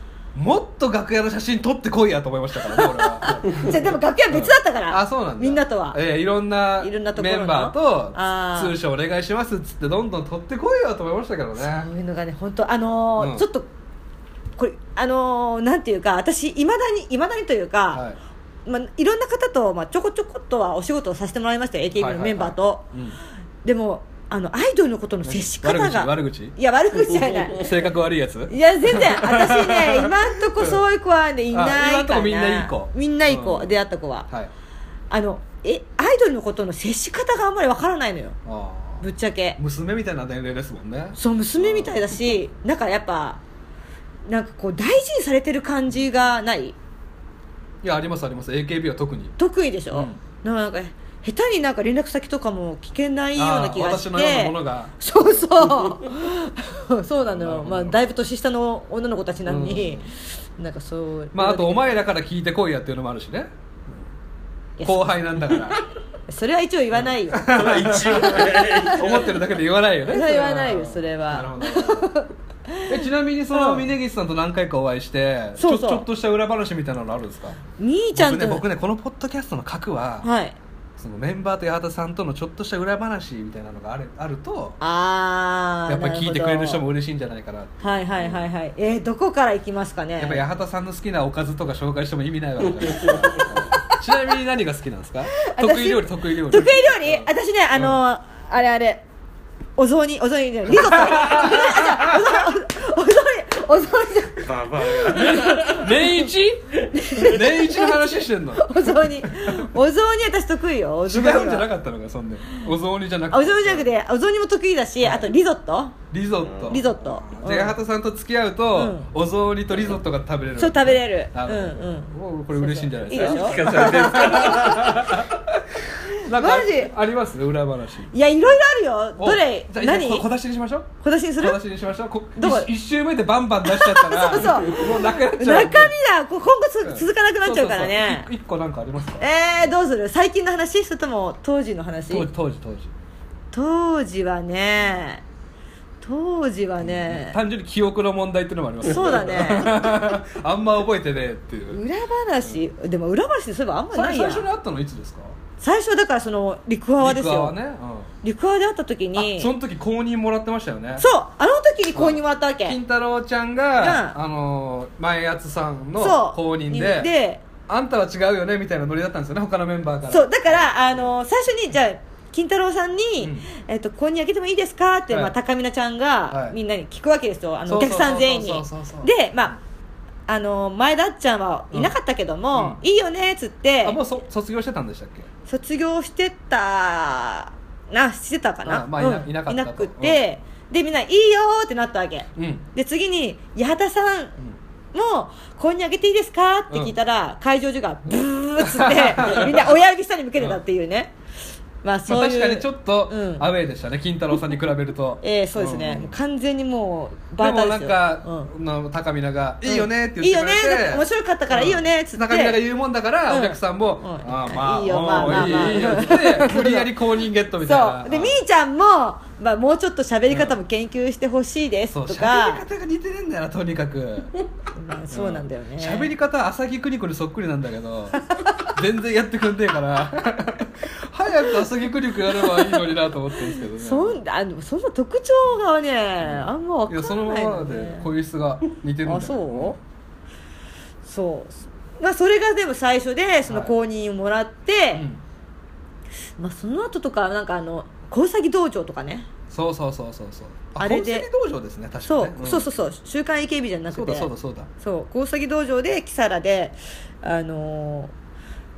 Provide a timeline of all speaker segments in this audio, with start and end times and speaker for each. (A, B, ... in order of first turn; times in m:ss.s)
0:00.3-0:11.9 A
0:02.7-0:06.0 B
0:06.8-0:08.8 B
0:11.6-0:13.7 B
0:13.2-0:13.4 A
0:14.6-0:18.0 B
0:17.9-0:18.2 A
0:18.6-0:22.9 B
0:22.0-0:23.2 A
0:23.6-0:27.8 B
0:25.2-0:26.5 A
0:27.4-0:30.8 A
0:28.5-0:34.3 B
0:31.5-0:33.7 A
0:35.1-0:38.4 B
0:38.4-0:39.0 A
0:39.0-0:39.6 B
0:39.6-0:42.2 A
0:41.2-0:43.4 B
0:44.3-0:46.8 B
0:47.8-0:49.4 A
0:49.4-1:00.1 B
0:49.9-0:50.2 A
0:53.4-0:55.7 A
0:57.2-0:58.0 A
0:59.4-1:00.0 A
1:00.6-1:01.9 B
1:01.3-1:04.0 A
1:04.8-1:05.6 B
1:04.8-1:05.8 A
1:06.3-1:08.9 B
1:07.0-1:12.1 A
1:07.5-1:09.5 C
1:10.1-1:13.0 B
1:12.9-1:17.6 A
1:13.5-1:13.9 B
1:15.6-1:16.0 B
1:17.8-1:18.6 B
1:18.1-1:20.3 A
1:20.2-1:20.6 B
1:21.0-1:24.8 A
1:24.8-1:26.8 B
1:25.9-1:28.4 A
1:27.8-1:30.4 B
1:30.2-1:38.0 A
1:32.9-1:33.5 C
1:35.4-1:39.0 B
1:39.8-1:44.5 B
1:40.7-1:42.4 A
1:44.4-1:46.0 C
1:45.0-1:49.7 A
1:46.9-1:51.6 B
1:51.0-1:53.9 A
1:53.3-1:56.0 B
1:55.0-1:55.3 A
1:56.1-2:08.1 A
1:56.4-1:56.8 C
1:56.7-1:57.8 B
1:58.7-1:59.1 B
2:00.6-2:04.8 B
2:03.1-2:05.2 C
2:06.1-2:06.9 B
2:08.1-2:10.2 B
2:09.2-2:15.9 A
2:11.0-2:11.6 B
2:12.4-2:12.7 B
2:13.6-2:18.3 B
2:16.8-2:19.7 A
2:19.2-2:22.3 B
2:22.1-2:22.9 A
2:23.5-2:25.2 B
2:26.0-2:27.4 B
2:26.8-2:31.8 A
2:28.8-2:29.9 B
2:31.7-2:34.4 B
2:33.9-2:35.4 A
2:35.6-2:37.5 B
2:37.0-2:38.1 A
2:38.2-2:39.5 B
2:39.1-2:41.0 A
2:41.0-2:42.8 B
2:41.9-2:47.1 A
2:43.8-2:44.2 B
2:46.0-2:47.4 B
2:47.7-2:51.1 A
2:50.1-2:59.6 B
2:53.2-2:53.5 A
2:56.3-2:56.6 A
2:57.7-2:59.5 A
3:00.3-3:04.0 B
3:02.5-3:02.8 A
3:03.8-3:05.3 A
3:05.5-3:14.4 B
3:08.6-3:10.2 A
3:12.4-3:12.6 A
3:14.9-3:21.1 B
3:18.6-3:19.8 A
3:21.8-3:23.5 B
3:22.1-3:26.2 A
3:25.2-3:28.5 B
3:27.4-3:38.4 A
3:29.6-3:32.6 B
3:33.3-3:36.9 B
3:37.6-3:42.6 B
3:40.3-3:40.6 A
3:41.9-3:44.3 A
3:44.7-3:46.1 B
3:45.1-3:54.2 A
3:52.3-3:52.8 B
3:53.6-3:58.1 B
3:56.2-3:59.8 A
3:59.0-3:59.8 B
4:01.0-4:05.0 B
4:03.5-4:03.7 A
4:04.9-4:05.2 A
4:06.4-4:09.3 B
4:09.5-4:12.7 A
4:10.8-4:11.3 B
4:12.0-4:18.1 B
4:13.9-4:14.7 A